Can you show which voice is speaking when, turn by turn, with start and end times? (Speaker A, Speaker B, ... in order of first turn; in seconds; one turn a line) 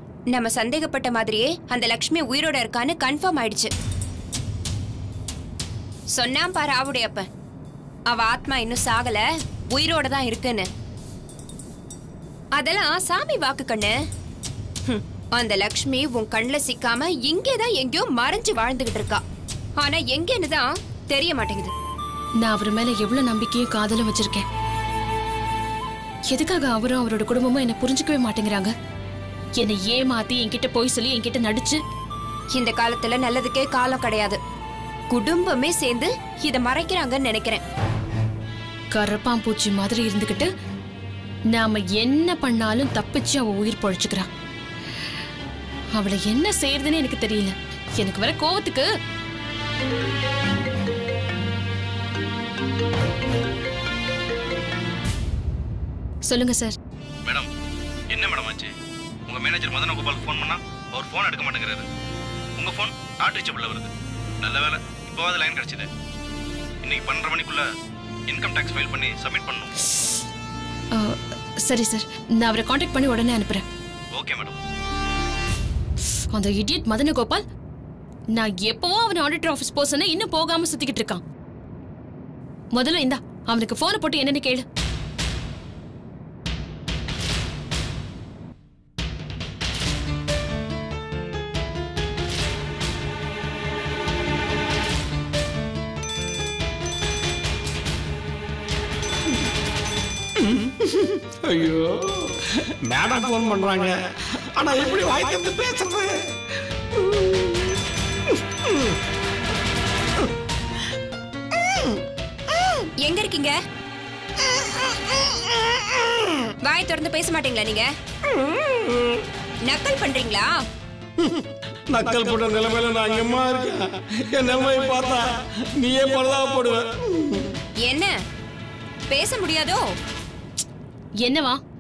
Speaker A: 0.3-3.7
Speaker A: 6.1-7.3
Speaker A: 8.1-10.7
Speaker A: 12.6-13.9
Speaker A: 14.9-19.2
Speaker A: 19.8-21.7
Speaker B: 22.4-24.4
Speaker B: 26.3-28.7
Speaker B: 29.6-31.8
Speaker A: 32.5-34.4
Speaker A: 35.1-37.6
Speaker B: 38.9-40.5
Speaker B: 41.5-44.3
Speaker B: 45.9-48.9
Speaker B: 56.2-56.8
Speaker C: 58.1-58.7
Speaker C: 59.3-61.9
Speaker C: 62.6-63.9
Speaker C: 64.4-65.9
Speaker C: 66.8-67.7
Speaker C: 68.3-69.7
Speaker B: 70.9-73.7
Speaker C: 74.1-74.6
Speaker B: 76.3-77.4
Speaker B: 78.3-81.2
Speaker B: 82.7-84.6
Speaker D: 100.4-106.3
Speaker D: 107.0-107.6
Speaker A: 113.0-113.5
Speaker A: 116.6-117.9
Speaker D: 118.5-119.2
Speaker A: 119.7-120.5
Speaker D: 121.4-127.5
Speaker A: 127.8-128.1
Speaker A: 129.1-129.8
Speaker B: 131.2-131.6